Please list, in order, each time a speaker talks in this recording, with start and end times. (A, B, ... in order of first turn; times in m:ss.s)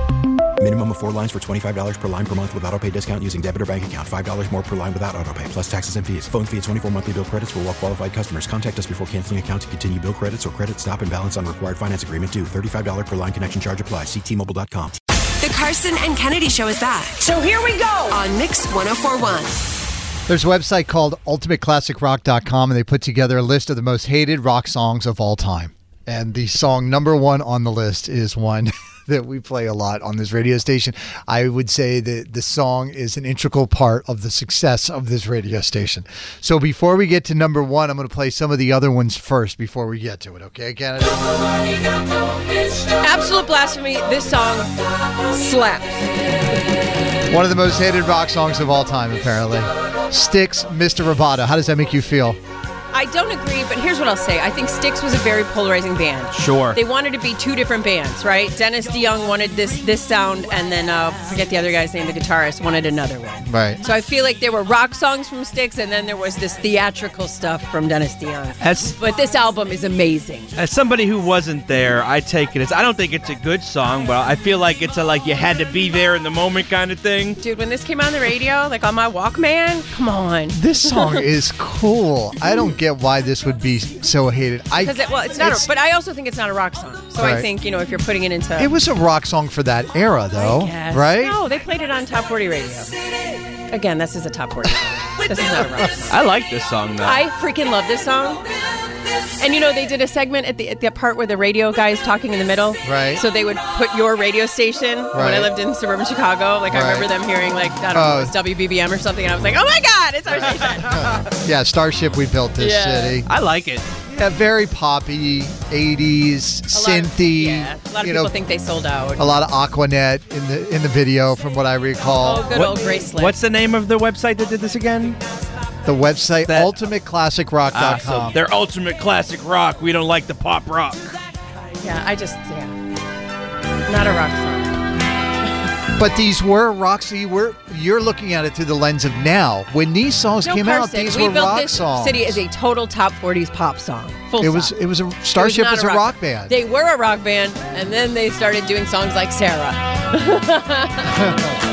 0:00.6-0:15.0 A
0:15.4-0:17.4 B
0:18.0-0:19.5 B
0:20.3-0:41.3 C
0:42.9-0:46.0 D
0:47.3-0:52.4 C
0:52.9-1:10.5 D
0:56.3-0:56.8 E
1:03.4-1:03.8 C
1:08.6-1:09.0 E
1:10.6-1:17.4 E
1:17.4-1:21.1 D
1:20.5-1:25.7 C
1:24.8-1:28.7 D
1:27.2-1:27.5 C
1:28.6-1:31.4 C
1:30.4-1:32.9 D
1:33.7-1:36.2 D
1:36.1-1:37.2 E
1:37.0-1:38.4 D
1:39.4-1:51.1 D
1:42.8-1:43.2 C
1:45.1-1:45.5 C
1:46.7-1:47.1 C
1:47.9-1:48.4 C
1:50.9-1:53.3 C
1:52.6-1:53.2 D
1:53.2-1:53.8 E
1:54.1-1:58.3 C
1:56.7-1:59.2 D
1:59.2-2:02.5 C
2:02.2-2:03.4 D
2:02.5-2:05.2 E
2:05.8-2:08.4 C
2:06.5-2:06.8 E
2:07.7-2:11.2 E
2:11.8-2:12.8 D
2:13.9-2:14.8 D
2:16.0-2:22.4 C
2:20.4-2:24.8 D
2:24.4-2:26.6 C
2:25.3-2:31.3 D